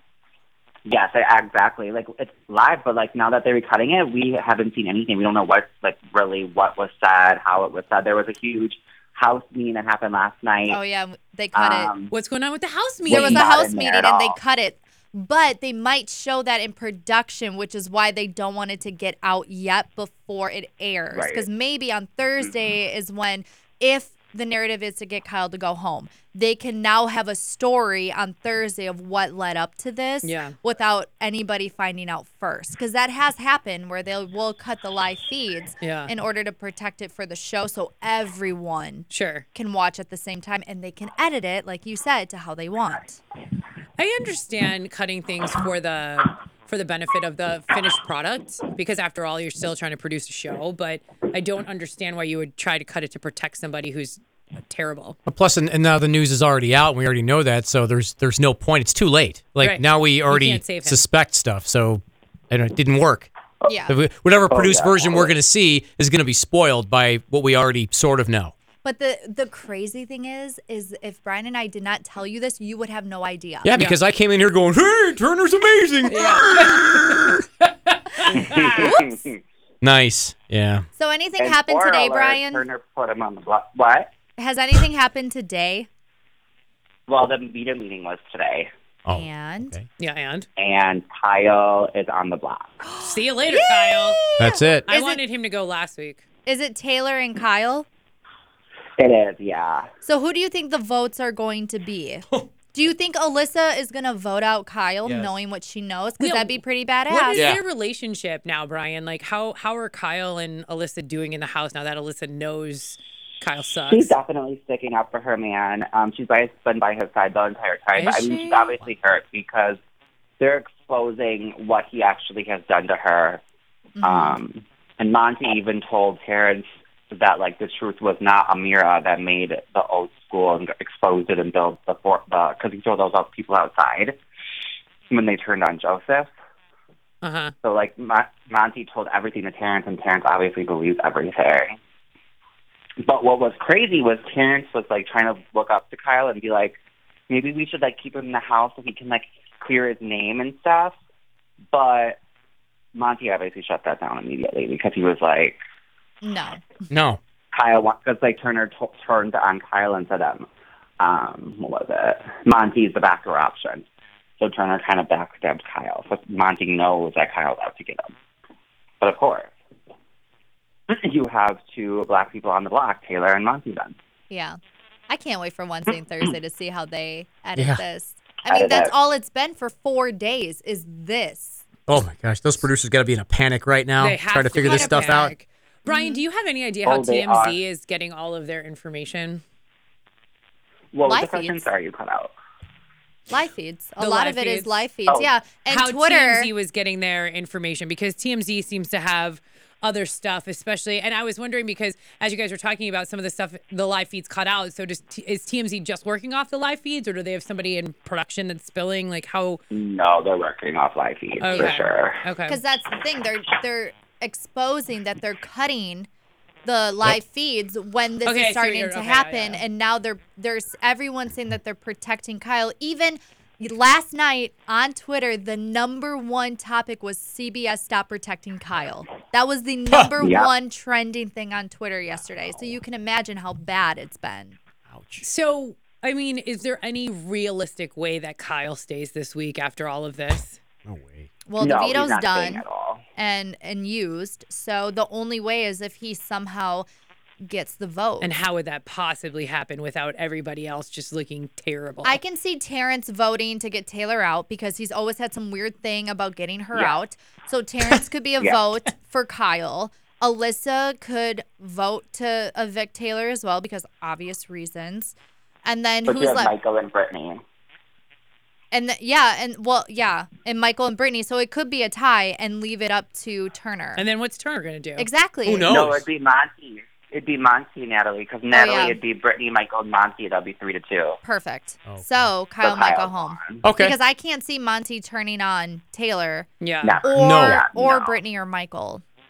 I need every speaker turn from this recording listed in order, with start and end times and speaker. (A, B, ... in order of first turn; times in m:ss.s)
0:00.8-0:10.8 A
0:10.7-0:11.9 B
0:11.5-0:12.1 A
0:12.1-0:13.4 C
0:13.1-0:14.4 A
0:13.1-0:43.2 B
0:21.1-0:21.5 A
0:30.2-0:30.6 C
0:35.8-0:36.1 C
0:39.1-0:39.4 C
0:44.0-0:55.2 C
0:55.3-1:03.3 D
0:59.6-1:01.0 C
1:03.7-1:04.0 B
1:03.9-1:08.5 D
1:04.5-1:05.3 A
1:08.8-1:13.8 B
1:13.6-1:17.2 D
1:16.1-1:17.0 C
1:17.6-1:18.9 C
1:18.3-1:19.4 A
1:18.7-1:19.2 B
1:19.8-1:20.8 D
1:21.0-1:22.6 B
1:21.4-1:24.1 A
1:24.4-1:25.9 B
1:27.1-1:28.7 A
1:29.0-1:29.8 D
1:29.1-1:29.7 B
1:30.0-1:30.5 C
1:30.6-1:32.8 A
1:32.8-1:35.2 B
1:33.0-1:34.2 C
1:34.4-1:34.9 D
1:34.9-1:36.2 C
1:36.4-1:37.8 B
1:39.0-1:39.9 A
1:40.0-1:47.5 B
1:45.0-1:45.3 D
1:46.2-1:54.2 C
1:47.3-1:47.6 D
1:53.8-1:59.8 A
1:57.9-1:58.7 C
2:00.4-2:03.4 A
2:04.0-2:04.4 B
2:04.0-2:14.2 A
2:15.1-2:16.3 A
2:17.2-2:17.5 C
2:17.6-2:21.8 A
2:23.0-2:26.8 A
2:27.3-2:30.9 A
2:31.7-2:32.2 A
2:32.9-2:35.6 A
2:36.2-2:36.9 B
2:36.9-2:37.2 D
2:37.5-2:40.5 A
2:41.0-2:43.8 A
2:44.4-2:48.1 A
2:49.0-2:49.5 A
2:50.9-2:53.9 A
2:54.3-2:54.6 B
2:55.1-3:01.6 B
2:57.6-2:57.8 D
2:58.5-2:58.9 A
3:01.9-3:05.3 D
3:04.0-3:09.4 C
3:05.9-3:06.2 B
3:06.8-3:07.6 A
3:10.9-3:12.3 A
3:11.0-3:11.7 B
3:13.3-3:16.5 B
3:14.0-3:14.8 C
3:15.7-3:29.6 C
3:29.7-3:32.2 A
3:31.4-3:32.6 C
3:31.5-3:31.9 B
3:32.5-3:36.1 B
3:36.6-3:54.6 B
3:38.2-3:39.6 C
3:50.2-3:50.5 A
3:54.9-3:55.2 D
3:55.2-4:00.6 C
4:00.8-4:01.3 D
4:01.5-4:02.6 B
4:01.6-4:03.0 A
4:03.2-4:06.8 B
4:07.4-4:08.3 B
4:08.2-4:12.2 C
4:12.0-4:25.1 B
4:25.6-4:26.5 B
4:26.0-4:27.4 A
4:28.7-4:34.0 B
4:34.0-4:35.1 C
4:35.0-4:35.7 B
4:35.4-4:36.0 D
4:35.6-4:41.2 A
4:38.5-4:39.0 B
4:41.2-4:46.5 B
4:41.9-4:42.3 D
4:42.6-4:43.6 A
4:43.6-4:44.0 D
4:46.6-4:47.0 C
4:46.8-4:48.1 A
4:47.0-4:49.0 B
4:47.2-4:47.6 D